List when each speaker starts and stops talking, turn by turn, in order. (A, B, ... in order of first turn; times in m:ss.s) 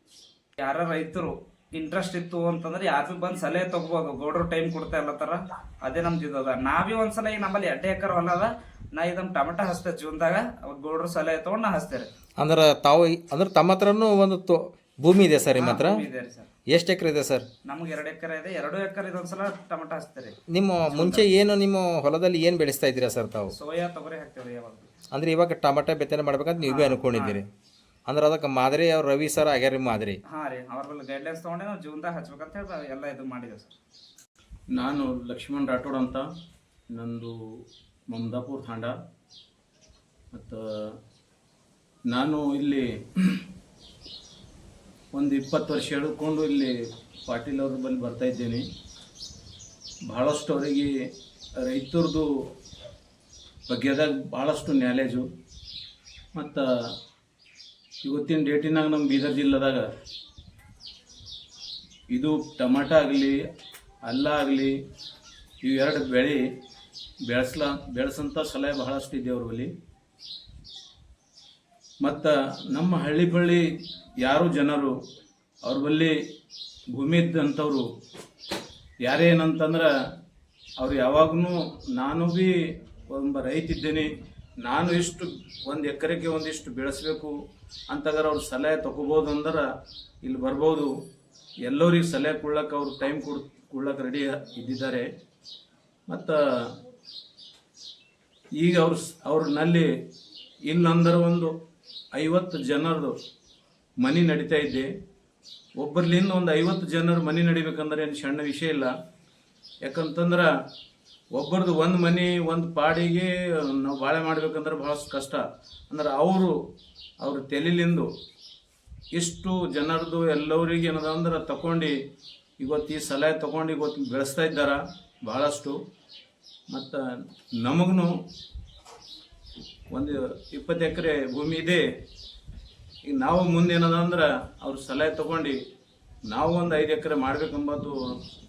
0:00.6-0:12.1 A
0:12.4-0:16.0 B
0:15.6-0:16.5 A
0:16.7-0:17.5 B
0:17.6-0:20.4 A
0:20.5-0:23.5 B
0:20.9-0:21.3 A
0:23.5-0:24.9 A
0:25.1-0:27.5 B
0:26.6-0:27.4 A
0:28.1-0:30.2 B
0:30.3-0:33.7 A
0:34.7-0:36.2 C
0:36.9-0:37.3 C
0:38.1-0:38.9 C
0:40.3-0:40.9 C
0:42.1-0:43.4 C
0:45.1-0:46.7 C
0:47.3-0:48.6 C
0:50.1-0:50.9 C
0:51.6-0:52.3 C
0:53.7-0:55.2 C
0:56.4-0:56.6 C
0:58.0-0:59.8 C
1:02.1-1:03.4 C
1:04.0-1:04.7 C
1:05.6-1:06.4 C
1:07.3-1:09.7 C
1:12.0-1:13.6 C
1:14.2-1:14.9 C
1:15.6-1:16.1 C
1:16.9-1:17.8 C
1:19.0-1:19.9 C
1:20.8-1:22.5 C
1:23.1-1:24.1 C
1:24.6-1:27.3 C
1:27.9-1:29.6 C
1:30.2-1:30.9 C
1:31.6-1:35.1 C
1:36.1-1:36.4 C
1:38.6-1:39.9 C
1:40.7-1:41.5 C
1:42.1-1:43.1 C
1:44.0-1:44.9 C
1:45.8-1:48.9 C
1:49.8-1:50.5 C
1:51.3-1:56.5 C
1:57.2-1:58.1 C
1:59.1-2:01.9 C
2:02.6-2:05.7 C
2:06.7-2:07.0 C
2:07.6-2:08.1 C
2:09.9-2:11.8 C
2:13.1-2:15.6 C
2:16.3-2:18.0 C